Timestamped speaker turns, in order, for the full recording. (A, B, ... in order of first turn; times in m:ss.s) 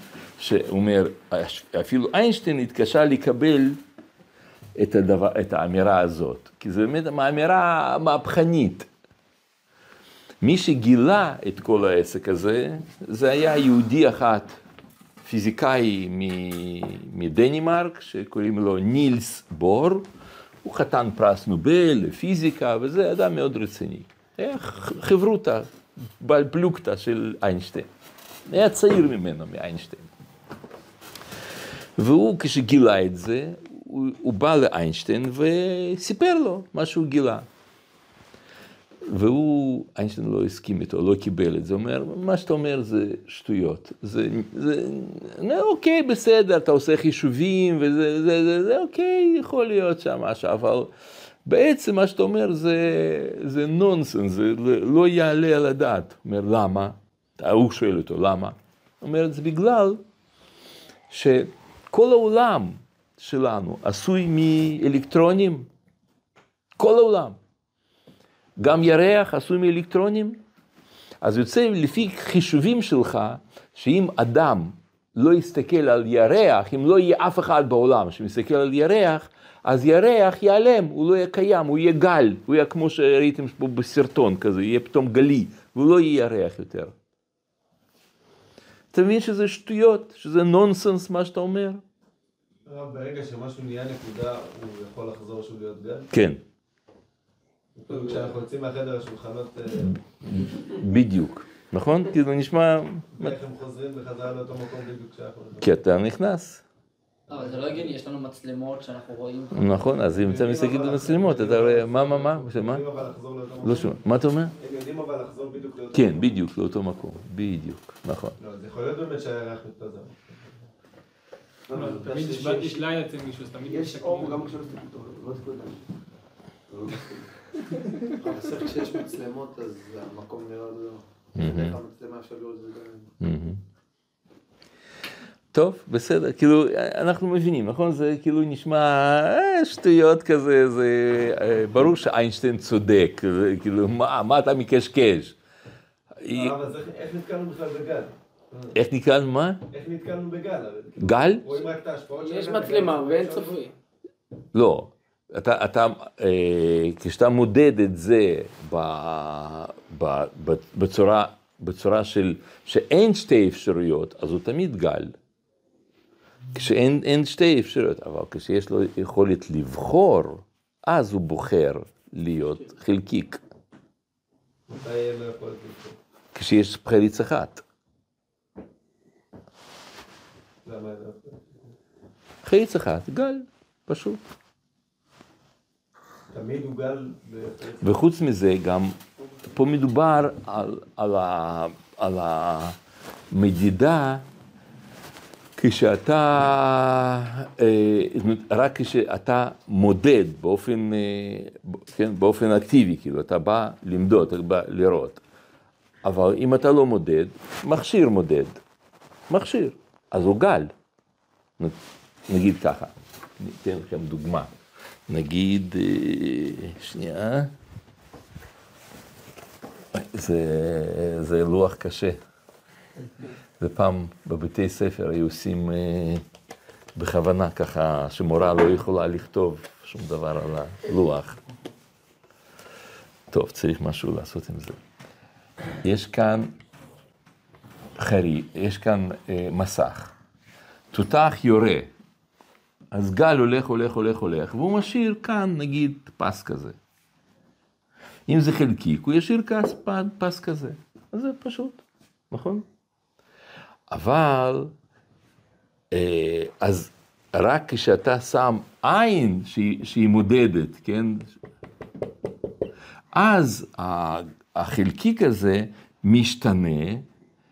0:00.4-0:03.8 A
0:04.8-0:08.9 A
0:10.4-0:14.6 A
0:15.2-0:20.0 A
0:20.6-0:27.9 A
0:28.5-0:30.1 A
0:32.0-0:37.5 A
0:39.0-0:50.9 A
0:51.4-1:00.0 A
1:01.1-1:05.7 A
1:06.8-1:07.4 A
1:08.6-1:10.4 A
1:11.2-1:26.9 A
1:28.9-1:31.8 A
1:32.6-1:36.1 B
1:36.1-1:36.4 A
1:37.7-1:39.9 B
1:40.2-1:43.3 A
1:43.1-1:45.7 B
1:45.6-1:46.6 A
1:47.3-1:47.9 B
1:47.3-1:49.8 C
1:49.5-1:52.8 A
1:50.2-1:54.0 B
1:53.6-1:54.5 A
1:54.6-1:56.3 B
1:55.9-1:58.4 A
1:58.4-2:00.2 B
2:01.7-2:02.9 B
2:01.7-2:04.5 D
2:03.6-2:05.8 B
2:06.7-2:07.2 B
2:08.2-2:13.1 E
2:11.3-2:11.8 A
2:13.2-2:13.6 A
2:15.5-2:25.4 A
2:26.2-2:26.5 A
2:26.3-2:28.8 B
2:28.7-2:29.6 A
2:29.7-2:33.6 B
2:31.0-2:31.6 A
2:32.2-2:33.7 C
2:34.5-2:45.2 A
2:46.5-2:53.4 A
2:54.7-2:56.0 B
2:56.3-2:57.6 A
3:00.6-3:01.5 B
3:02.4-3:04.2 A
3:06.3-3:07.9 B
3:07.8-3:09.0 A
3:09.5-3:12.8 A
3:13.3-3:14.2 A
3:15.6-3:25.2 A
3:26.0-3:28.6 A
3:29.3-3:30.7 A
3:31.6-3:34.5 A
3:35.1-3:37.5 A
3:39.9-3:42.2 A
3:43.6-3:46.2 A
3:46.9-3:51.4 A
3:53.3-3:54.8 A
3:55.8-3:56.5 A
3:58.0-4:00.1 A
4:00.9-4:01.9 A
4:02.9-4:06.8 A
4:08.3-4:12.6 A
4:13.9-4:14.7 A
4:15.9-4:21.3 A
4:23.1-4:27.0 A